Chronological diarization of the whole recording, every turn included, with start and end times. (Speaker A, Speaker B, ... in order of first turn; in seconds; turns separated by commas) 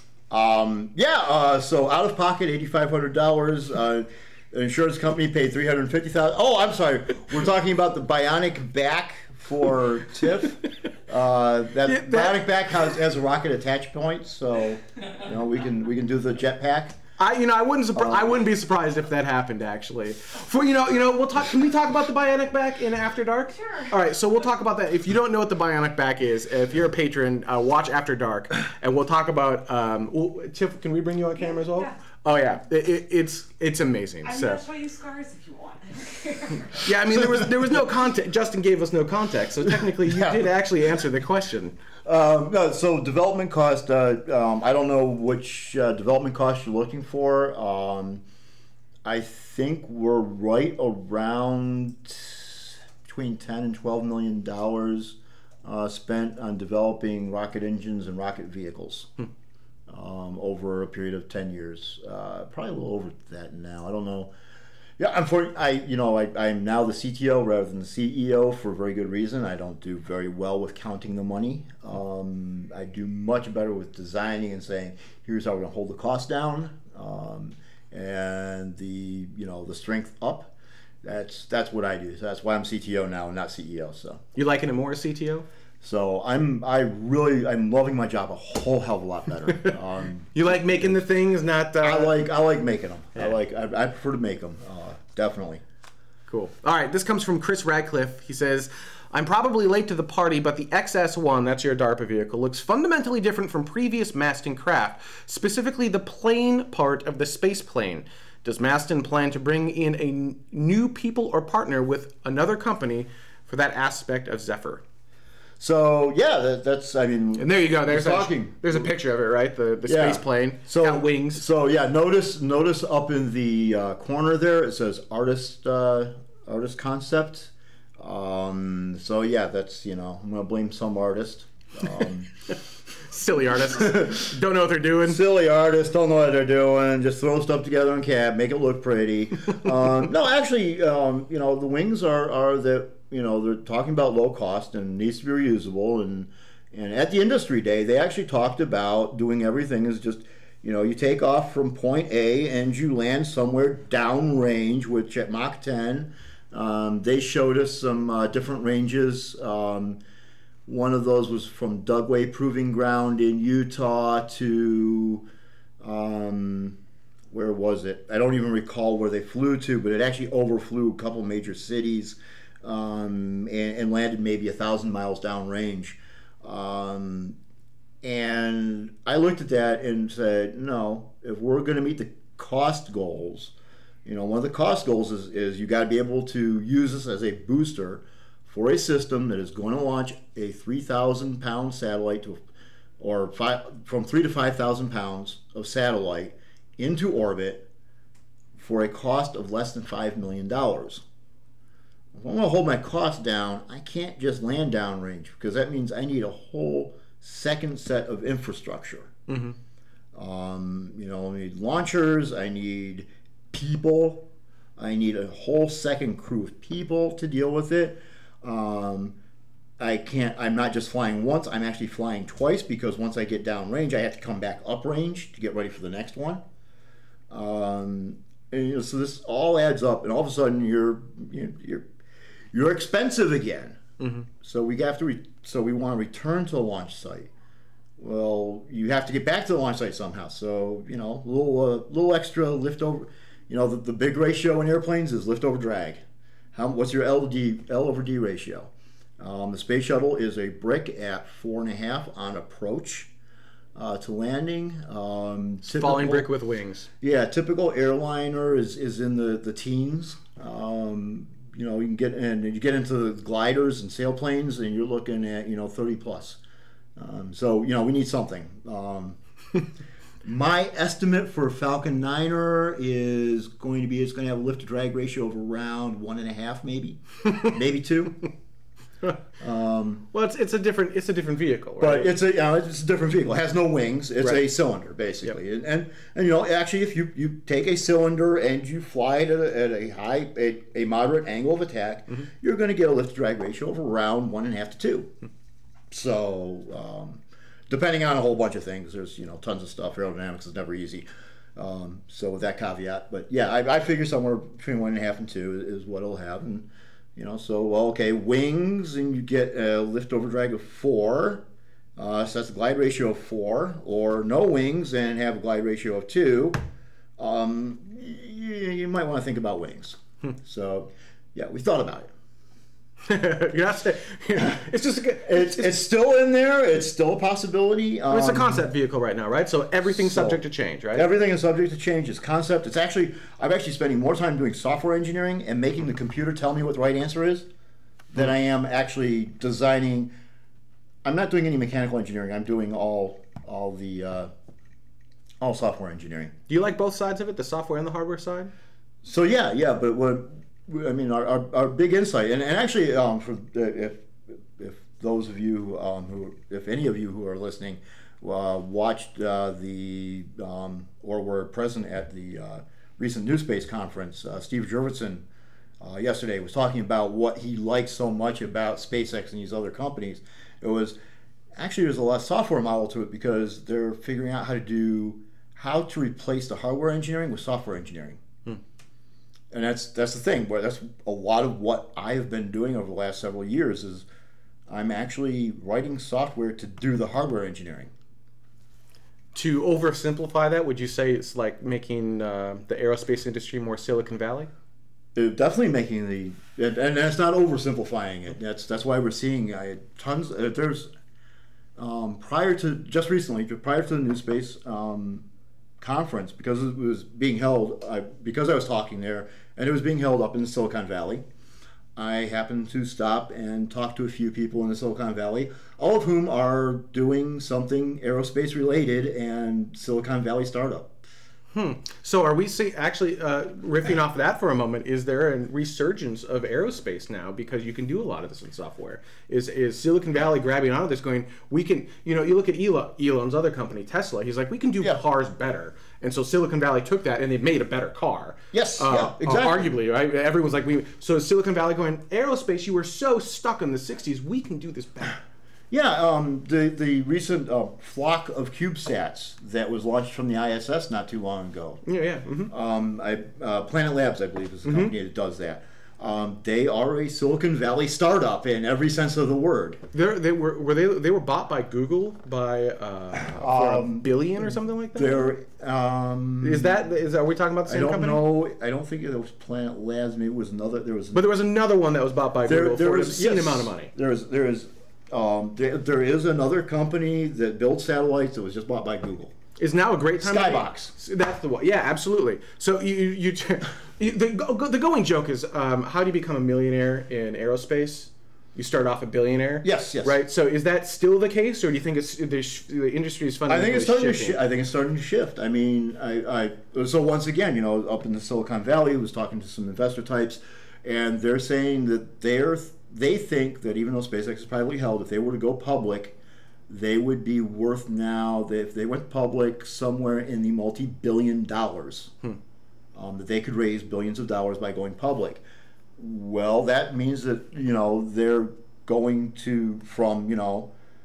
Speaker A: 0.3-17.0, Speaker B: 11.9-13.0, Speaker B: 17.2-34.7, Speaker A: 17.9-18.4, Speaker C: 23.6-23.9, Speaker C: 31.4-32.0, Speaker C: 34.2-36.9, Speaker B: 36.8-41.8, Speaker A: 40.0-40.5, Speaker A: 42.0-48.2, Speaker A: 49.0-59.1, Speaker A: 59.9-64.3, Speaker A: 65.0-84.2, Speaker B: 84.4-85.5, Speaker A: 85.8-91.0, Speaker B: 90.3-92.2, Speaker A: 91.8-95.6, Speaker B: 96.3-114.8, Speaker A: 115.6-118.9, Speaker B: 117.4-121.4, Speaker A: 119.9-132.3, Speaker B: 133.1-135.2, Speaker A: 133.5-134.3, Speaker A: 135.0-160.0, Speaker A: 160.7-165.3, Speaker A: 165.8-166.8, Speaker A: 167.3-177.4, Speaker A: 178.0-183.5, Speaker A: 184.1-192.4, Speaker A: 193.0-197.7, Speaker A: 198.6-201.0, Speaker A: 202.1-209.2, Speaker B: 209.3-209.6, Speaker A: 210.1-219.2, Speaker A: 219.8-226.4, Speaker A: 227.3-231.9, Speaker A: 232.5-233.8, Speaker B: 234.0-234.3, Speaker A: 234.4-237.3, Speaker A: 238.0-246.0, Speaker A: 246.5-253.1, Speaker A: 253.8-256.3, Speaker B: 255.7-256.9, Speaker A: 257.0-266.4, Speaker A: 267.0-269.2, Speaker A: 270.2-278.3, Speaker A: 279.4-280.1, Speaker B: 280.1-282.1, Speaker A: 281.8-295.1, Speaker A: 295.9-311.4, Speaker A: 312.0-316.6, Speaker A: 317.2-322.1, Speaker B: 323.1-325.8, Speaker A: 325.2-328.7, Speaker B: 328.1-331.1, Speaker A: 329.9-330.4, Speaker A: 330.9-337.5, Speaker A: 338.1-340.1, Speaker A: 341.0-344.3, Speaker A: 345.4-346.3, Speaker B: 346.5-348.5, Speaker A: 349.0-365.3, Speaker A: 365.8-371.0, Speaker A: 371.5-378.2, Speaker A: 379.5-384.1, Speaker A: 384.7-387.9, Speaker B: 389.4-394.5, Speaker A: 395.1-400.9, Speaker A: 401.8-405.3, Speaker A: 405.8-411.3, Speaker A: 412.0-420.9, Speaker B: 421.5-445.2, Speaker A: 438.5-439.7, Speaker A: 445.7-451.8, Speaker B: 451.9-452.5, Speaker A: 452.5-459.8, Speaker B: 454.6-454.9, Speaker B: 459.9-465.3, Speaker A: 463.2-466.9, Speaker B: 466.4-468.2, Speaker A: 467.7-471.3, Speaker B: 471.1-473.9, Speaker A: 472.4-479.4, Speaker B: 479.6-494.4, Speaker A: 480.2-480.9, Speaker A: 489.6-490.2, Speaker A: 493.5-506.2, Speaker A: 506.7-512.1, Speaker A: 513.0-515.4, Speaker A: 516.0-520.7